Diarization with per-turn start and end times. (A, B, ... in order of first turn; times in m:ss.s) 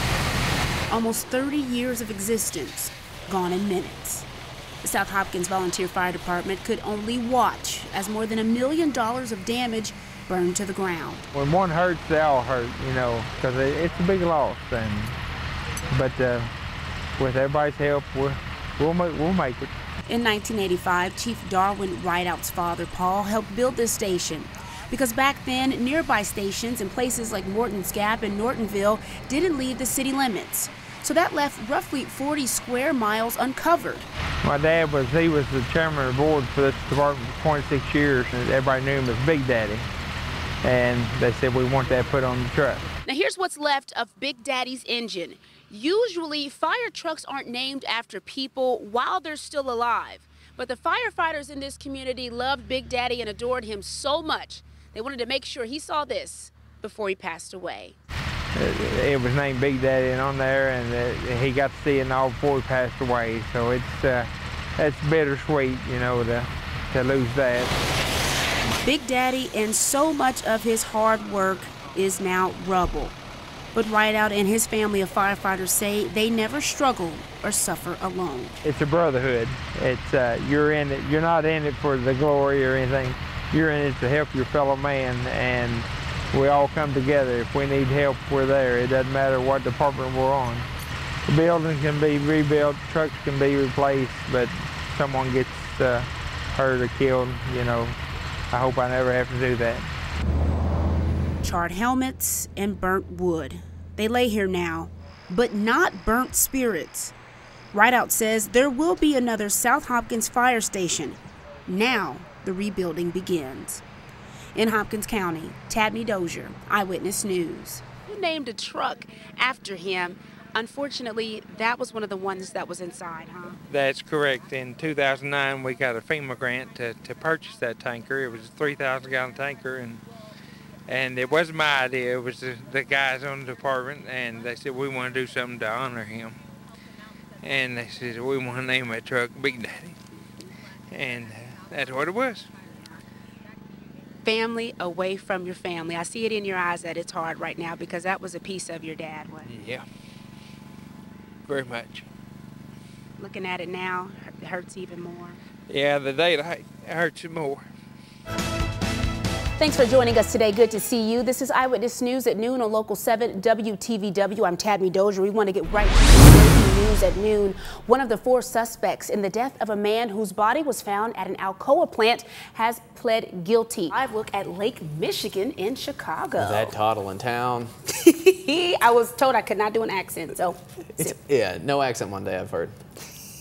0:00.9-0:04.3 A
0:04.8-0:11.3 A
0:11.3-0:15.2 B
0:15.9-0:16.5 B
0:17.2-0:19.7 B
0:20.1-0:34.1 A
0:34.4-0:39.9 B
0:40.6-0:42.8 B
0:43.0-0:58.0 A
0:58.6-1:07.8 B
1:08.8-1:13.2 A
1:13.7-1:18.6 A
1:18.6-1:30.7 B
1:31.3-1:38.0 B
1:38.5-1:39.9 B
1:41.4-1:47.1 A
1:47.7-1:53.8 A
1:54.6-2:03.6 A
2:03.7-2:10.0 B
2:10.9-2:16.4 B
2:17.4-2:20.0 B
2:20.9-2:22.5 B
2:24.2-2:29.5 A
2:29.5-2:29.8 B
2:31.5-2:32.0 B
2:33.2-2:35.4 A
2:35.7-2:37.6 B
2:39.6-2:56.8 A
2:56.4-2:57.7 C
2:57.9-3:01.2 A
3:01.3-3:02.6 C